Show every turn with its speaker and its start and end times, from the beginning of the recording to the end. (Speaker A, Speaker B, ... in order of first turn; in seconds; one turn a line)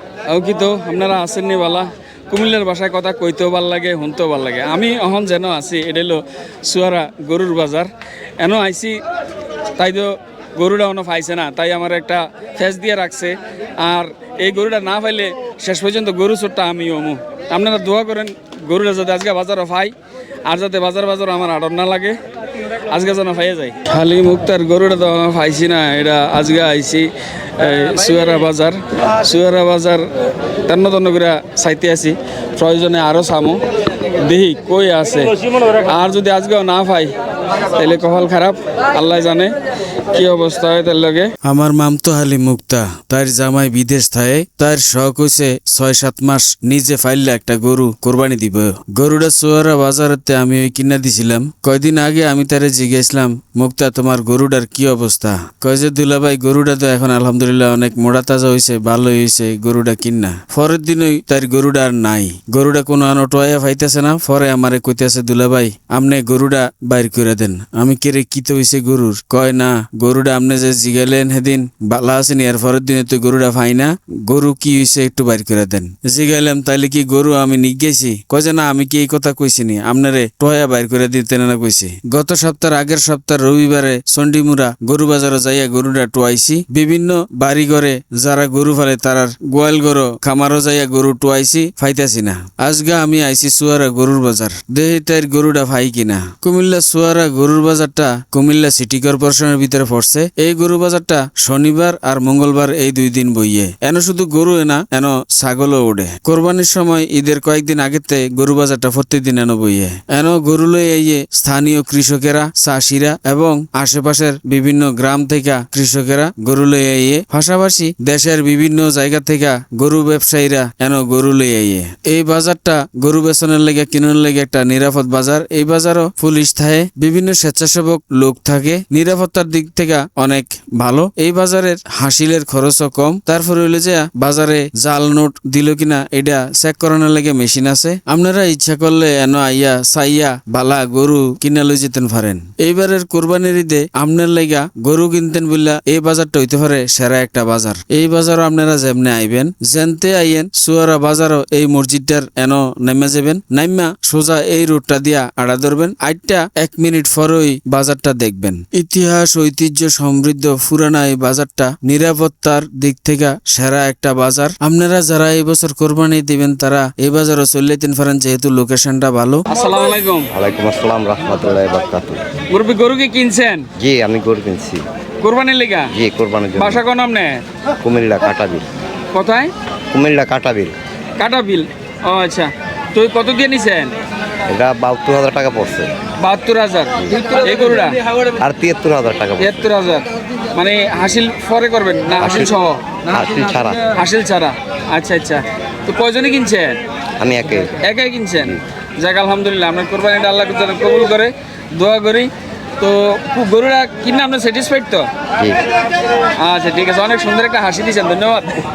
Speaker A: 0.3-9.0
Speaker A: 9.8-19.9
Speaker A: 20.4-22.2
Speaker A: 22.7-37.1
Speaker A: 37.7-39.5
Speaker A: 40.1-41.3
Speaker B: 41.4-169.5
Speaker A: 169.5-170.3
Speaker C: 170.3-172.2
Speaker A: 172.5-173.7
Speaker C: 173.8-174.8
Speaker A: 175.2-175.9
Speaker C: 175.9-176.8
Speaker A: 176.6-177.4
Speaker C: 177.8-178.7
Speaker A: 179.1-179.5
Speaker C: 179.9-180.8
Speaker A: 181.2-183.9
Speaker C: 184.5-185.9
Speaker A: 186.2-188.0
Speaker C: 188.4-189.5
Speaker A: 189.4-193.0
Speaker C: 192.2-192.5
Speaker C: 193.1-193.9
Speaker A: 193.9-196.8
Speaker C: 197.2-197.8
Speaker A: 197.7-205.1
Speaker A: 206.4-208.7